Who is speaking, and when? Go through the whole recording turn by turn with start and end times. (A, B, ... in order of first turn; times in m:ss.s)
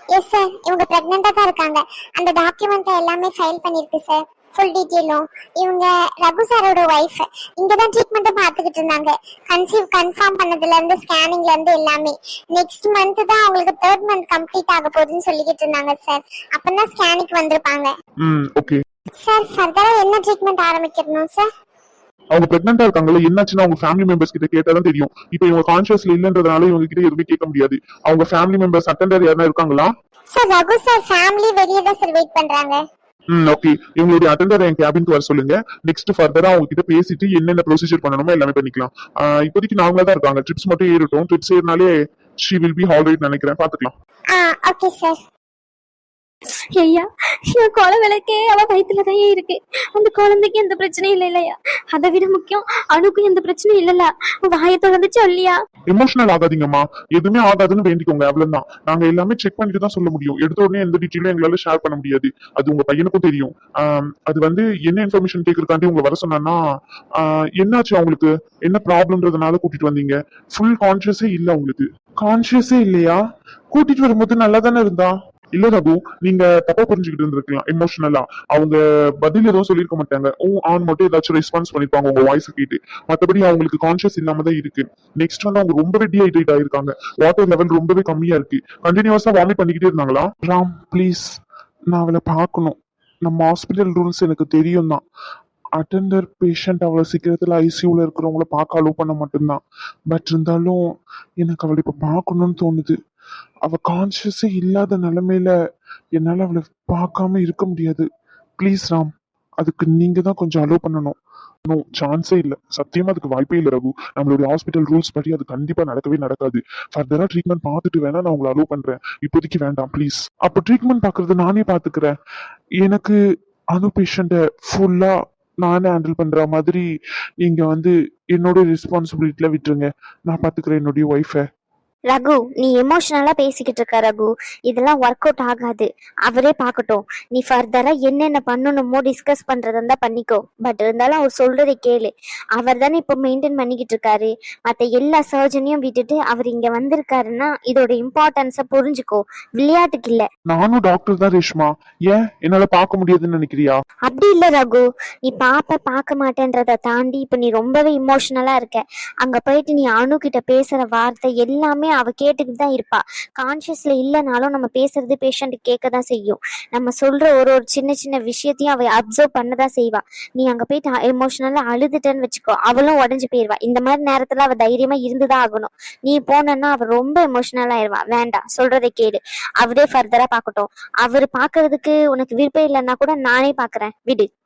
0:00.1-0:17.9 A
0:18.2-0:18.8 B
0:19.2-0:21.5 A
0:22.3-0:29.9 B
0:30.3-0:32.8 A
0:33.3-0:41.9 B
0:42.4-0:43.9 B
0:44.3-0:45.2 A
0:46.8-0:55.6 C
0:55.9-1:06.6 B
1:07.2-1:13.2 B
1:13.7-1:31.2 B
1:31.9-1:35.0 B
1:35.8-1:40.8 B
1:41.4-1:43.0 B
1:43.7-1:45.5 B
1:46.2-1:48.1 B
1:48.6-1:49.1 B
1:49.6-1:51.2 B
1:51.7-2:02.1 B
2:02.8-2:03.2 B
2:03.7-2:06.8 B
2:07.4-2:11.4 B
2:12.1-2:30.3 C
2:30.5-2:33.8 B
2:34.0-3:04.3 C